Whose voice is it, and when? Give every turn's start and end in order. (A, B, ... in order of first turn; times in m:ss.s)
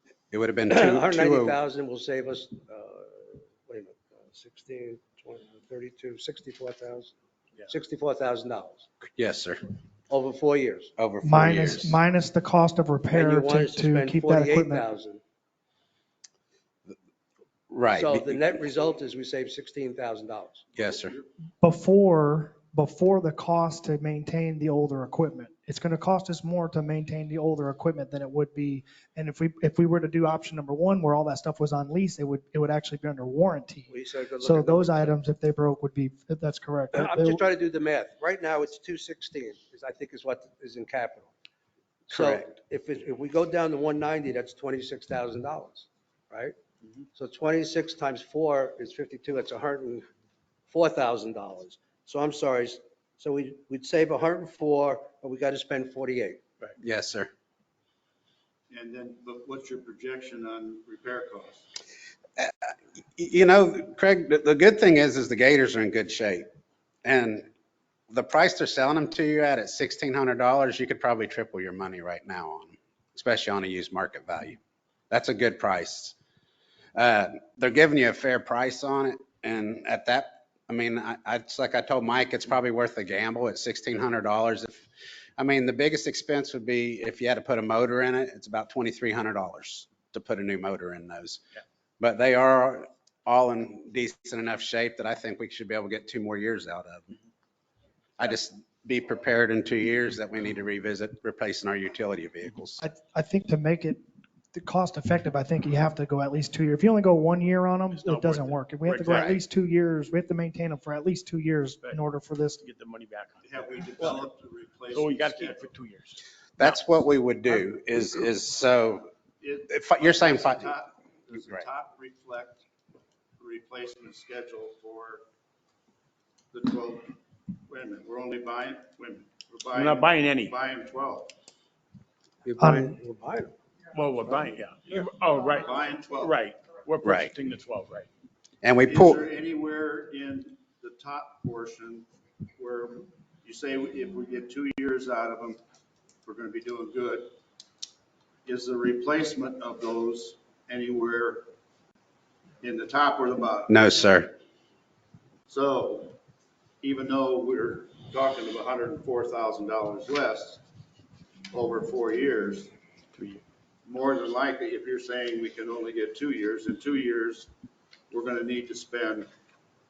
0:00.3-0:01.6 A
0:00.7-0:07.1 B
0:07.7-0:08.9 B
0:09.2-0:09.6 A
0:10.1-0:10.9 B
0:11.0-0:12.0 A
0:11.2-0:14.8 C
0:13.1-0:15.2 B
0:17.7-0:18.4 A
0:18.0-0:20.6 B
0:20.8-0:21.2 A
0:21.6-0:37.4 C
0:33.9-0:35.1 B
0:36.9-0:41.3 B
0:42.1-0:46.6 B
0:42.1-0:42.5 A
0:47.2-0:50.0 B
0:50.7-0:56.4 B
0:56.8-0:57.3 A
0:58.7-1:01.7 D
1:03.2-1:06.5 A
1:07.0-1:07.5 A
1:08.1-1:14.6 A
1:15.1-1:16.2 A
1:17.0-1:31.4 A
1:32.0-1:37.2 A
1:38.2-1:42.8 A
1:42.8-1:44.0 C
1:44.5-1:52.6 C
1:47.9-1:49.4 E
1:49.1-1:49.4 A
1:52.6-1:54.3 E
1:53.4-1:55.7 D
1:54.9-1:56.8 E
1:56.6-1:59.1 A
1:59.4-2:02.6 D
1:59.7-2:00.7 A
2:03.4-2:05.2 D
2:06.5-2:07.1 D
2:07.7-2:11.3 D
2:09.7-2:10.6 E
2:12.4-2:13.6 B
2:12.6-2:12.9 C
2:13.9-2:18.1 E
2:15.6-2:16.4 D
2:17.0-2:17.3 A
2:18.6-2:19.2 A
2:18.9-2:22.1 D
2:22.6-2:25.6 D
2:26.2-2:27.3 D
2:28.5-2:31.5 D
2:32.6-2:33.8 D
2:33.7-2:34.3 A
2:35.5-2:36.2 D
2:36.8-2:40.6 D
2:41.5-2:42.7 D
2:43.2-2:43.4 E
2:43.9-2:47.5 D
2:48.1-2:49.3 D